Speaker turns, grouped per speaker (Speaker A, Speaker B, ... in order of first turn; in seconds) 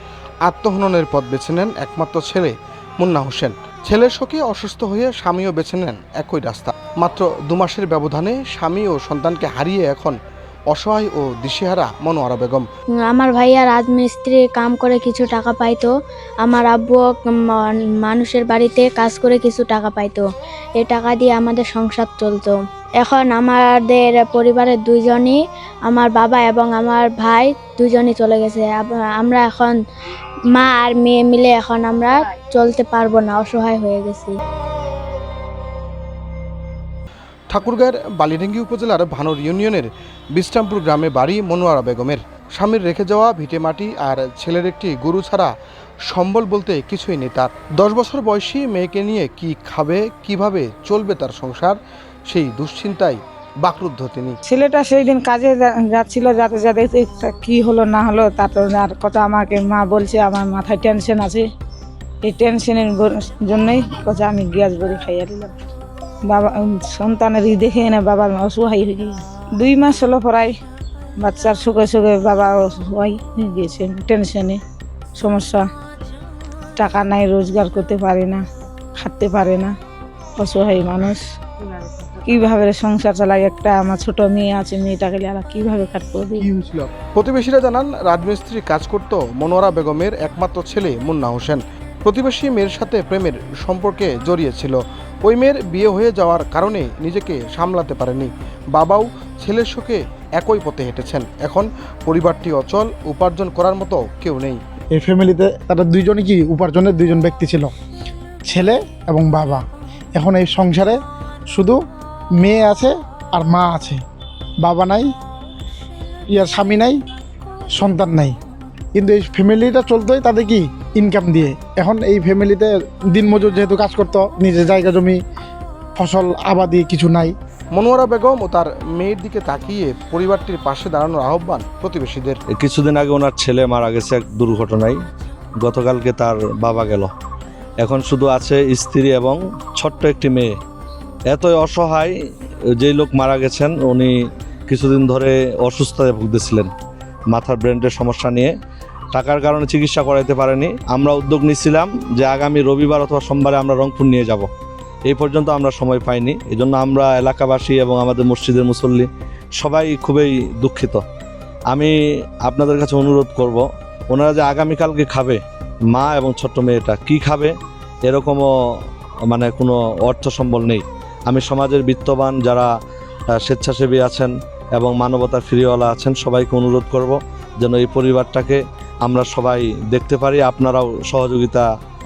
Speaker A: 0.4-10.1, 10.7-12.6, 37.5-45.5, 46.1-51.8, 52.3-54.4, 86.6-104.6, 127.7-132.4
Speaker B: 13.1-15.9, 16.4-20.2, 20.8-29.8, 30.5-34.4
Speaker C: 54.5-61.5, 62.2-65.5, 66.3-70.5, 71.2-74.6, 75.2-75.6, 76.8-78.4, 79.0-79.7, 80.4-81.2, 82.2-86.5
Speaker D: 104.9-107.7, 108.5-109.6, 110.2-111.0, 112.4-114.0, 114.6-115.1, 116.3-117.0, 117.8-118.3, 118.9-125.2, 126.0-127.3
Speaker E: 132.5-135.0, 135.6-137.1, 137.8-140.5, 141.3-142.1, 142.8-144.1, 144.7-146.7, 147.3-148.5, 149.1-154.5, 155.1-161.0, 161.7-167.5, 168.1-168.5, 169.3-172.7, 173.4-181.7